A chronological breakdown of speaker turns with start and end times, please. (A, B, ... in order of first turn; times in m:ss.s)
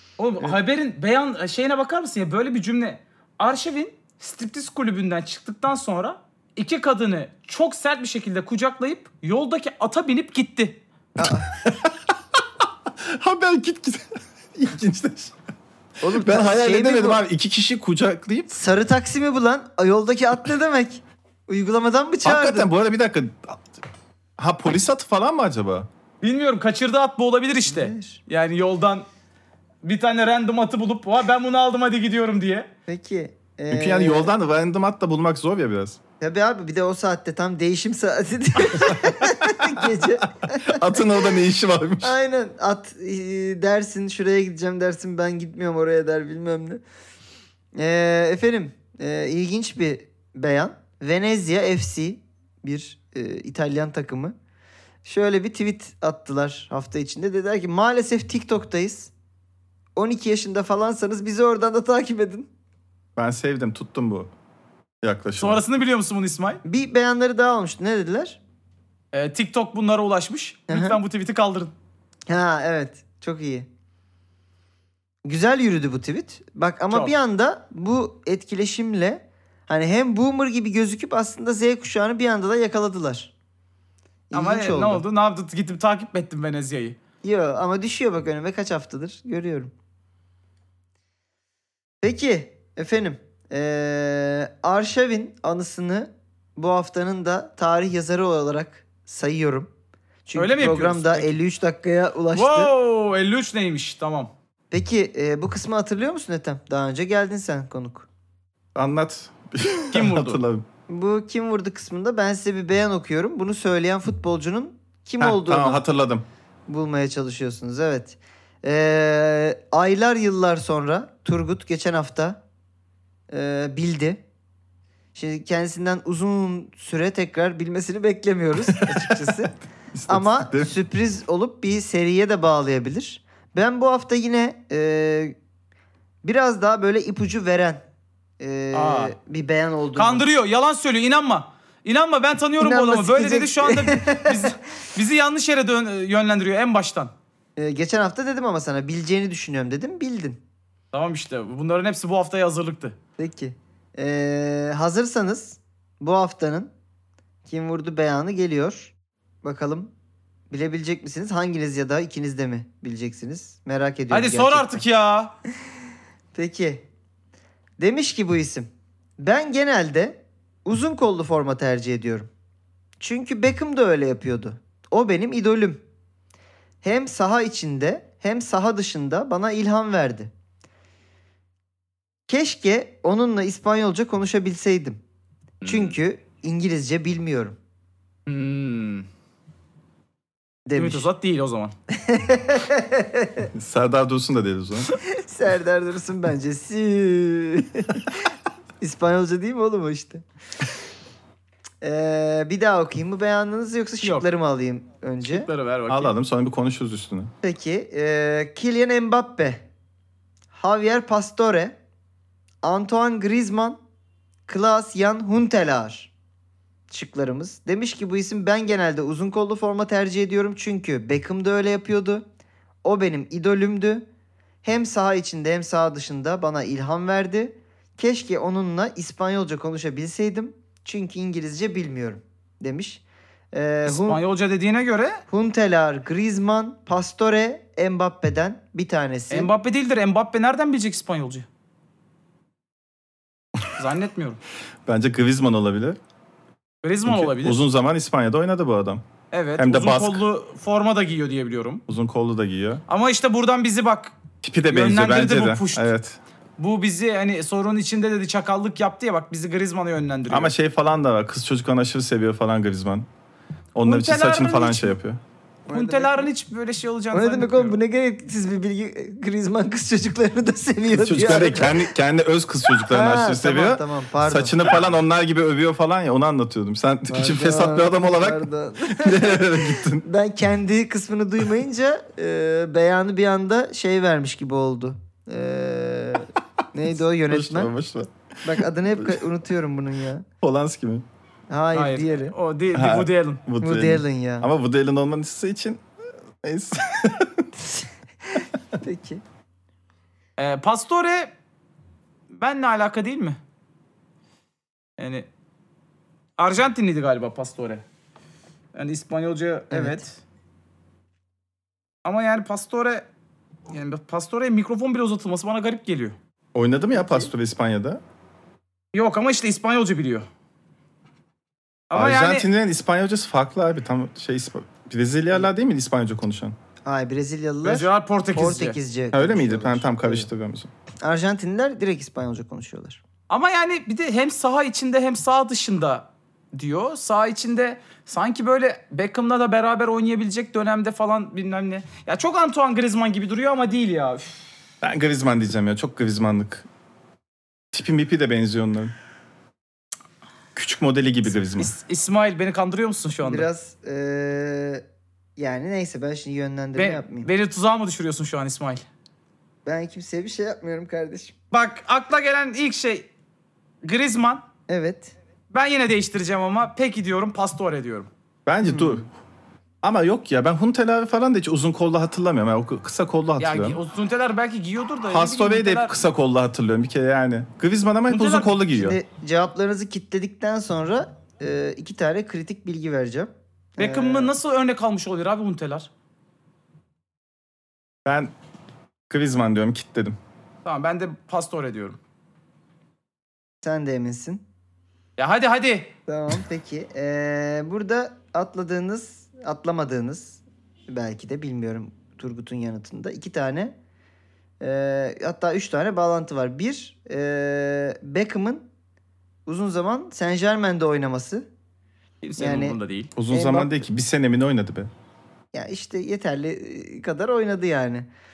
0:00.2-0:10.8 A
0:11.2-0:11.5 B
0:11.2-0:15.4 C
0:16.0-0:17.2 B
0:16.0-0:18.6 C
0:18.5-0:22.7 B
0:22.2-0:23.6 C
0:24.4-0:25.9 C
0:26.2-0:29.0 A
0:27.7-0:28.2 B
0:29.8-0:32.7 A
0:32.9-0:34.3 B
0:33.7-0:36.0 C
0:36.2-0:41.4 B
0:38.8-0:39.8 C
0:40.6-0:42.2 C
0:42.0-0:46.8 B
0:47.8-0:54.4 B
0:55.0-0:59.1 B
1:00.0-1:02.5 B
1:03.2-1:04.3 C
1:05.0-1:05.6 C
1:05.4-1:06.6 A
1:06.6-1:08.4 B
1:09.1-1:11.7 A
1:10.7-1:11.0 B
1:12.3-1:13.7 B
1:15.2-1:23.3 B
1:24.3-1:25.0 B
1:24.3-1:27.0 A
1:27.2-1:29.7 B
1:32.0-1:39.7 B
1:40.3-1:42.7 B
1:40.4-1:41.3 A
1:42.3-1:44.3 A
1:44.7-1:48.1 B
1:48.8-1:50.6 C
1:49.9-1:50.4 A
1:50.9-1:55.8 B
1:55.2-1:56.2 C
1:56.7-2:02.4 B
2:03.3-2:04.2 B
2:05.2-2:09.6 B
2:08.8-2:09.1 C
2:09.9-2:10.7 C
2:10.1-2:15.4 B
2:16.2-2:17.8 B
2:18.4-2:20.2 B
2:18.7-2:19.2 A
2:20.0-2:27.1 A
2:22.6-2:24.5 B
2:27.6-2:30.4 B
2:30.9-2:33.0 A
2:33.2-2:36.7 B
2:37.5-2:39.9 B
2:40.5-2:44.8 B
2:44.1-2:45.3 A
2:46.3-2:46.8 B
2:47.8-2:52.3 B
2:53.0-2:55.8 B
2:56.8-3:00.3 B
3:02.3-3:05.0 B
3:05.6-3:06.0 A
3:05.7-3:07.6 B
3:08.3-3:09.1 A
3:10.7-3:11.1 B
3:10.8-3:11.7 A
3:12.0-3:13.5 B
3:13.6-3:14.9 C
3:15.1-3:18.3 B
3:18.8-3:20.2 B
3:21.8-3:25.5 B
3:24.0-3:24.3 A
3:25.2-3:26.1 A
3:25.9-3:27.3 C
3:27.4-3:29.6 B
3:30.5-3:31.8 B
3:32.6-3:33.8 B
3:34.5-3:36.1 B
3:36.9-3:42.2 B
3:42.8-3:44.0 B
3:44.6-3:53.0 B
3:53.5-3:54.2 B
3:53.8-3:55.2 A
3:55.3-3:59.5 B
3:59.3-4:01.5 A
4:03.8-4:04.4 A
4:04.9-4:06.0 C
4:06.8-4:07.6 A
4:07.1-4:09.0 C
4:09.3-4:11.8 A
4:09.6-4:10.2 C
4:11.9-4:12.8 C
4:12.9-4:14.2 A
4:14.4-4:16.2 C
4:14.7-4:15.9 A
4:16.6-4:20.5 A
4:20.3-4:23.1 C
4:23.8-4:25.2 C
4:23.8-4:24.9 A
4:25.7-4:26.3 B
4:25.7-4:27.8 A
4:27.1-4:31.9 B
4:30.9-4:40.0 C
4:32.9-4:34.9 B
4:37.1-4:47.7 B
4:47.3-4:49.2 C
4:48.4-4:50.2 B
4:50.4-4:51.0 C
4:51.5-4:52.4 B
4:51.7-4:53.4 A
4:52.7-4:55.8 C
4:53.6-4:54.5 B
4:56.4-4:57.5 C
4:57.6-4:59.2 B
5:00.4-5:01.3 A
5:02.3-5:03.4 A
5:05.0-5:05.3 A
5:06.4-5:07.8 A
5:08.7-5:10.2 A
5:09.7-5:10.0 B
5:12.0-5:13.1 A
5:13.7-5:16.2 A
5:16.5-5:18.0 C
5:18.9-5:20.3 A
5:21.9-5:22.5 A
5:21.9-5:26.6 C
5:26.8-5:30.3 B
5:27.6-5:28.8 A
5:29.1-5:30.7 C
5:31.0-5:33.0 B
5:33.3-5:44.4 A
5:44.8-5:46.7 C
5:47.7-5:48.9 C
5:50.6-5:51.7 C
5:51.5-5:53.5 A
5:53.2-5:54.8 B
5:55.4-5:57.3 B
5:56.8-5:58.9 A
5:59.6-6:01.3 B
6:01.5-6:03.1 A
6:03.8-6:04.4 A
6:04.7-6:05.1 B
6:05.5-6:08.1 A
6:08.5-6:09.1 C
6:08.6-6:09.0 B
6:09.8-6:13.8 C
6:13.4-6:16.0 A
6:15.1-6:19.0 C
6:18.1-6:18.6 A
6:18.7-6:24.3 B
6:23.8-6:25.9 A
6:28.1-6:28.3 C
6:29.1-6:30.2 C
6:30.6-6:32.0 A
6:33.6-6:34.4 B
6:35.2-6:35.9 A
6:36.1-6:43.7 B
6:44.6-6:48.6 B
6:49.5-6:51.5 B
6:52.2-6:53.1 A
6:52.4-6:52.8 B
6:53.2-6:54.9 C
6:53.3-6:53.8 B
6:55.5-6:58.1 B